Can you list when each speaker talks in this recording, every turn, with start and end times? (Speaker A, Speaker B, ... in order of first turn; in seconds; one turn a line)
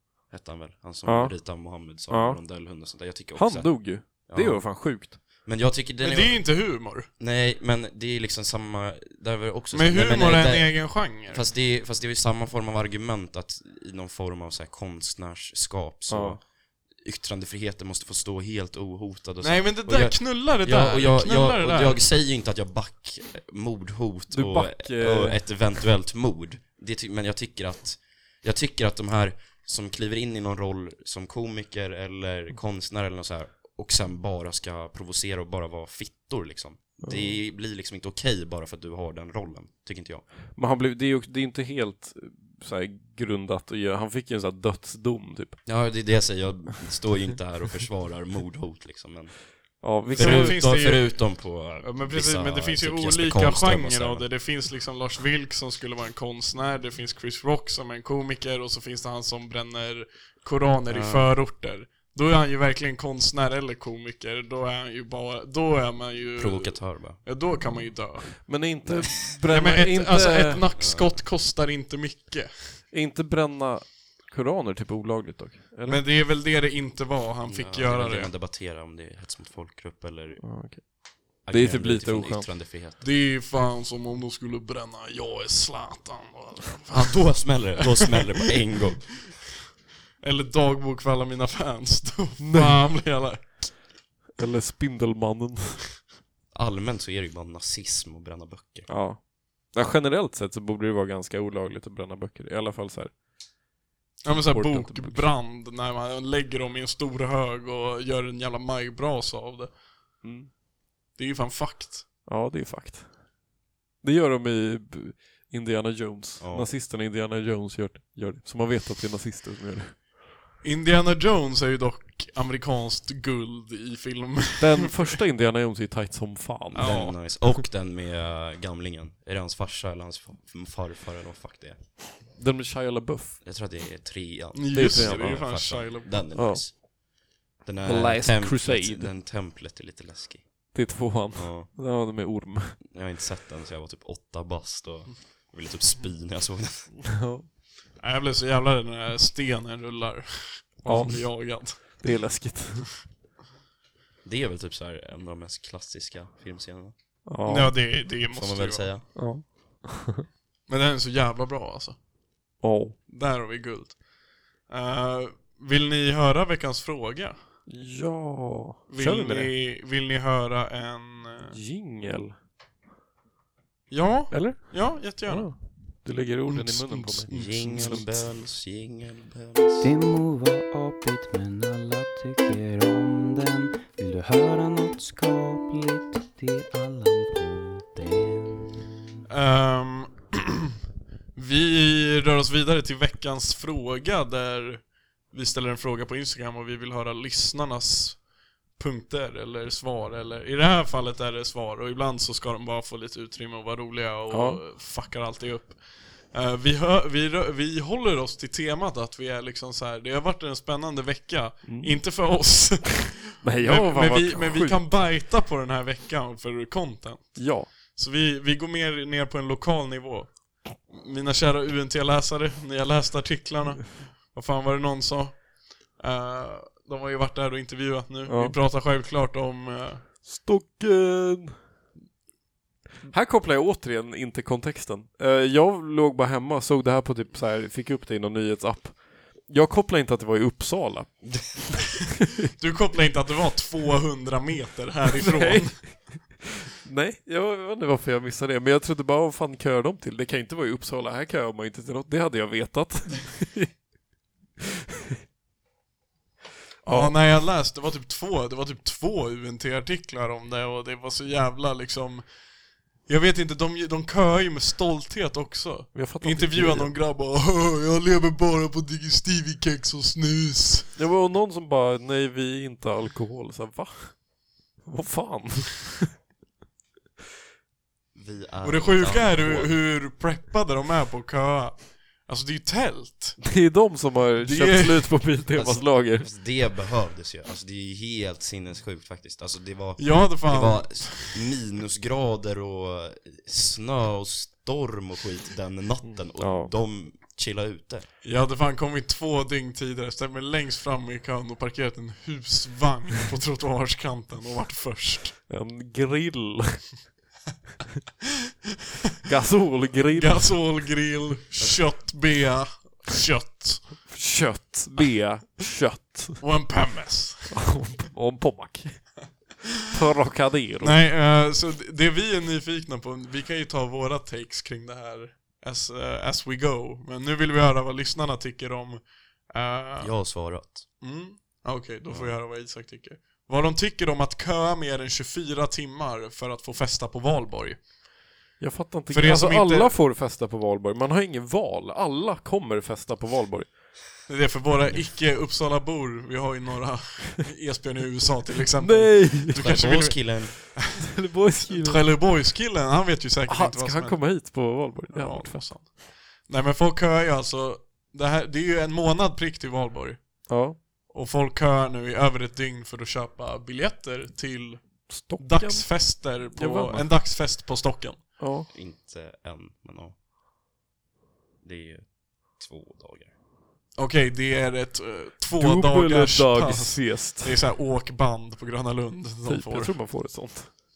Speaker A: 0.3-6.6
Speaker B: 1.1-2.4
Speaker B: 3.4-5.2
Speaker C: 6.0-7.1
Speaker A: 7.2-40.3
Speaker C: 9.7-11.4
Speaker B: 16.1-16.4
Speaker C: 19.4-22.0
Speaker B: 24.3-25.5
Speaker B: 37.0-37.4
Speaker B: 40.5-45.7
Speaker A: 45.7-54.3
Speaker B: 49.8-50.6
Speaker C: 50.1-68.6
Speaker A: 60.9-61.3
Speaker A: 66.4-67.2
Speaker B: 68.4-70.7
Speaker C: 69.5-72.8
Speaker A: 70.8-71.2
Speaker B: 72.9-76.0
Speaker C: 75.9-78.3
Speaker A: 77.5-80.5
Speaker B: 80.4-82.5
Speaker A: 81.4-83.0
Speaker C: 83.0-88.4
Speaker A: 86.9-89.3
Speaker C: 90.2-93.8
Speaker B: 92.4-92.8
Speaker B: 94.4-95.9
Speaker A: 96.5-98.9
Speaker B: 98.9-103.1
Speaker C: 104.2-109.7
Speaker B: 104.3-105.3
Speaker B: 110.2-110.5
Speaker C: 111.2-112.1
Speaker B: 112.3-113.1
Speaker B: 114.0-120.0
Speaker A: 116.4-116.7
Speaker C: 120.6-125.2
Speaker B: 124.6-127.2
Speaker A: 126.7-131.9
Speaker C: 126.8-127.2
Speaker B: 132.3-133.4
Speaker A: 133.4-136.8
Speaker C: 134.5-136.2
Speaker B: 134.7-135.5
Speaker B: 136.3-136.7
Speaker A: 137.6-140.8
Speaker B: 137.8-139.1
Speaker B: 140.7-142.8
Speaker A: 141.3-141.7
Speaker A: 142.8-147.0
Speaker B: 147.1-147.5
Speaker C: 148.0-152.1
Speaker B: 150.8-152.9
Speaker A: 154.2-156.9
Speaker B: 157.3-157.8
Speaker C: 157.4-158.9
Speaker A: 158.3-159.1
Speaker B: 159.2-160.2
Speaker C: 160.7-162.0
Speaker B: 162.6-163.0
Speaker C: 163.1-164.0
Speaker C: 164.7-167.4
Speaker B: 167.7-169.5
Speaker C: 168.9-171.6
Speaker B: 171.5-172.4
Speaker C: 173.9-178.0
Speaker B: 174.3-178.2
Speaker A: 177.3-179.9
Speaker D: 179.8-188.7
Speaker C: 189.3-190.7
Speaker C: 191.4-198.2
Speaker C: 198.8-230.1
Speaker B: 204.3-204.6
Speaker B: 211.7-212.0
Speaker B: 213.4-214.8
Speaker B: 217.4-217.7
Speaker B: 228.3-228.6
Speaker B: 230.2-231.6
Speaker B: 233.1-241.5
Speaker C: 242.6-246.0
Speaker B: 245.2-253.7
Speaker B: 256.9-257.1
Speaker C: 256.9-262.3
Speaker C: 263.1-270.9
Speaker B: 265.9-266.9
Speaker B: 271.0-276.1
Speaker A: 278.1-279.8
Speaker C: 278.6-283.5
Speaker B: 283.4-286.3
Speaker C: 284.4-285.3
Speaker A: 285.5-298.1
Speaker C: 290.0-291.4
Speaker B: 296.0-296.7
Speaker C: 298.2-305.4
Speaker B: 305.5-306.9
Speaker B: 309.3-310.6
Speaker C: 310.1-314.1
Speaker B: 314.1-316.4
Speaker C: 316.4-317.6
Speaker B: 317.5-319.2
Speaker B: 319.9-321.0
Speaker C: 320.8-330.1
Speaker A: 330.0-330.9
Speaker C: 331.0-337.8
Speaker A: 332.1-332.4
Speaker B: 338.6-343.7
Speaker C: 339.1-339.9
Speaker C: 344.3-350.8
Speaker B: 348.8-349.7
Speaker A: 349.6-350.6
Speaker B: 351.0-352.0
Speaker C: 351.7-360.5
Speaker B: 353.5-355.7
Speaker B: 360.5-360.8
Speaker C: 361.1-368.3
Speaker B: 365.1-367.1
Speaker B: 368.4-368.7
Speaker A: 368.7-370.2
Speaker A: 371.6-373.3
Speaker C: 374.0-379.9
Speaker B: 375.6-377.6
Speaker B: 379.5-380.7